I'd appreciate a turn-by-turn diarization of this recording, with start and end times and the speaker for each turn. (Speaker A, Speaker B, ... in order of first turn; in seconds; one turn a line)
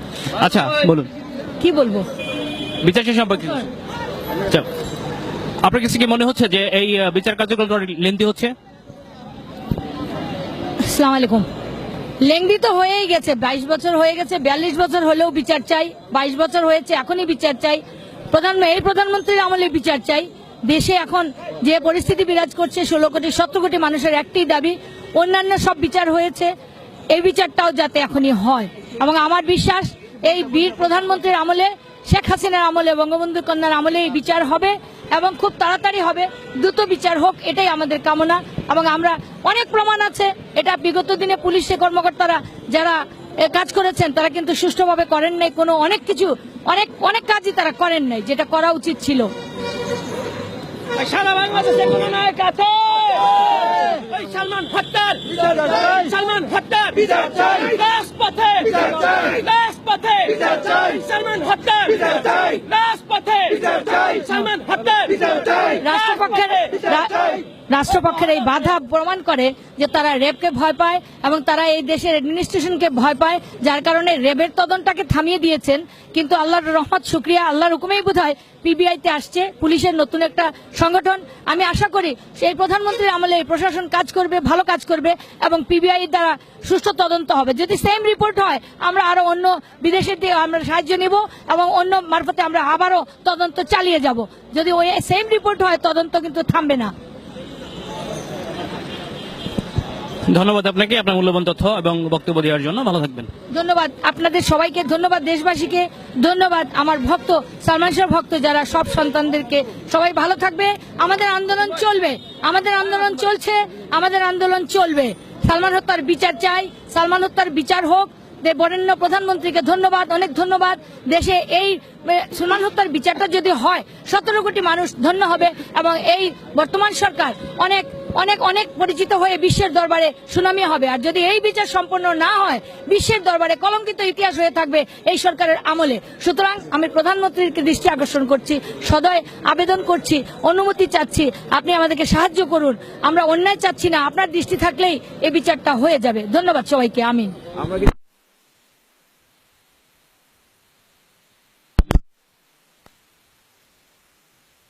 Speaker A: 0.4-1.1
Speaker B: 1.6-2.0
Speaker A: 2.8-3.7
Speaker A: 5.6-8.5
Speaker B: 10.8-11.5
Speaker B: 12.2-26.5
Speaker B: 27.1-49.3
Speaker C: 51.1-65.7
Speaker A: 58.3-58.7
Speaker A: 61.5-62.0
Speaker A: 62.6-63.6
Speaker B: 65.7-96.9
Speaker A: 100.3-103.3
Speaker B: 103.5-147.3